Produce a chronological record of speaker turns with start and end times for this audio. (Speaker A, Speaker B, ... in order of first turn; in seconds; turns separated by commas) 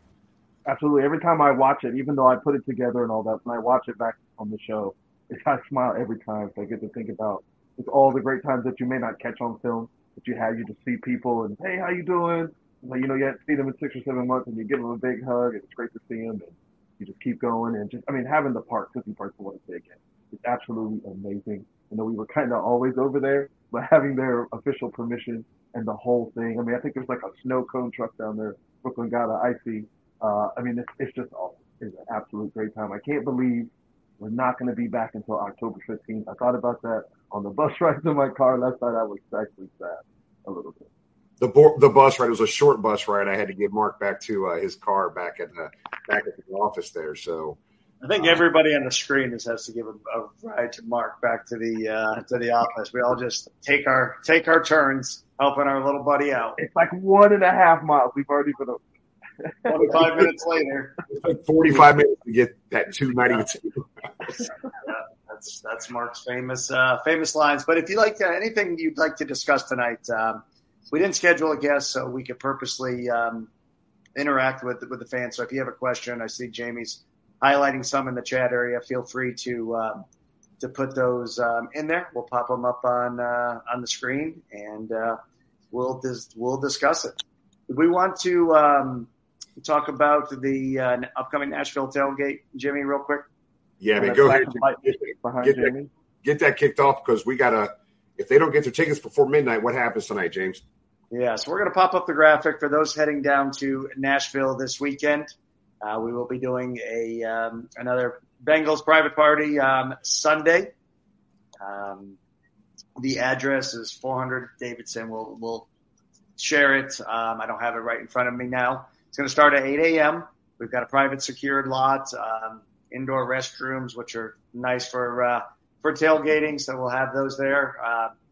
Speaker A: 0.7-40.9, Speaker B: 41.4-47.6, Speaker C: 48.0-56.6, Speaker A: 56.6-58.8, Speaker A: 59.4-60.3, Speaker C: 59.7-60.9, Speaker B: 61.1-63.8, Speaker C: 64.8-73.5, Speaker C: 74.2-80.0, Speaker C: 80.6-85.2, Speaker C: 85.7-87.2, Speaker C: 87.7-93.3, Speaker B: 93.8-95.7, Speaker A: 94.0-95.9, Speaker B: 96.2-100.6, Speaker C: 101.1-110.7, Speaker C: 111.6-112.2, Speaker C: 113.0-115.7, Speaker C: 116.4-128.1